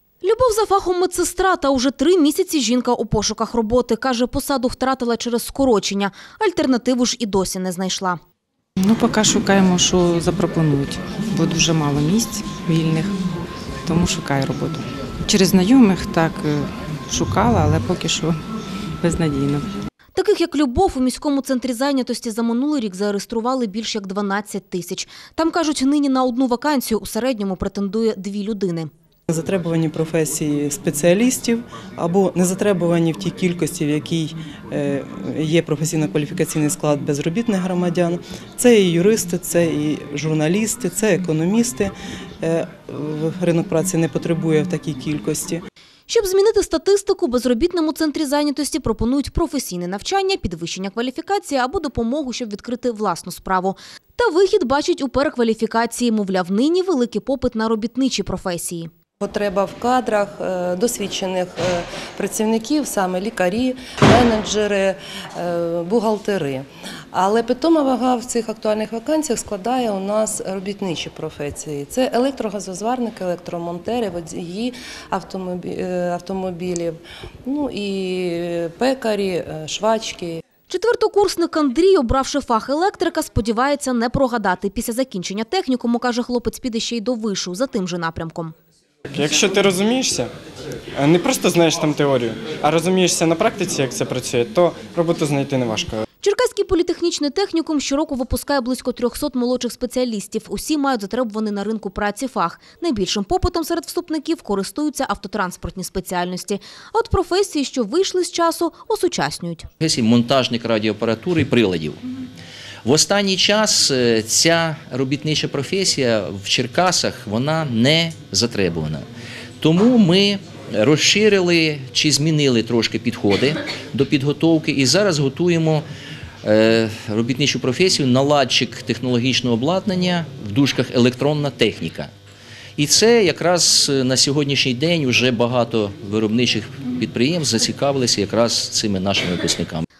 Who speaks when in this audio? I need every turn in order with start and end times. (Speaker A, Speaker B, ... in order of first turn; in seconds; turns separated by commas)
Speaker A: 0.2-8.2, Speaker B: 8.8-13.2, Speaker B: 13.8-18.4, Speaker B: 19.0-19.7, Speaker A: 20.1-28.9, Speaker C: 29.3-45.6, Speaker A: 46.1-58.9, Speaker D: 59.2-80.4, Speaker A: 80.7-88.5, Speaker E: 89.1-90.3, Speaker E: 91.0-96.0, Speaker A: 96.2-109.7, Speaker F: 109.8-112.0, Speaker F: 112.8-119.0, Speaker F: 119.6-125.8, Speaker F: 126.4-132.1, Speaker F: 132.8-139.8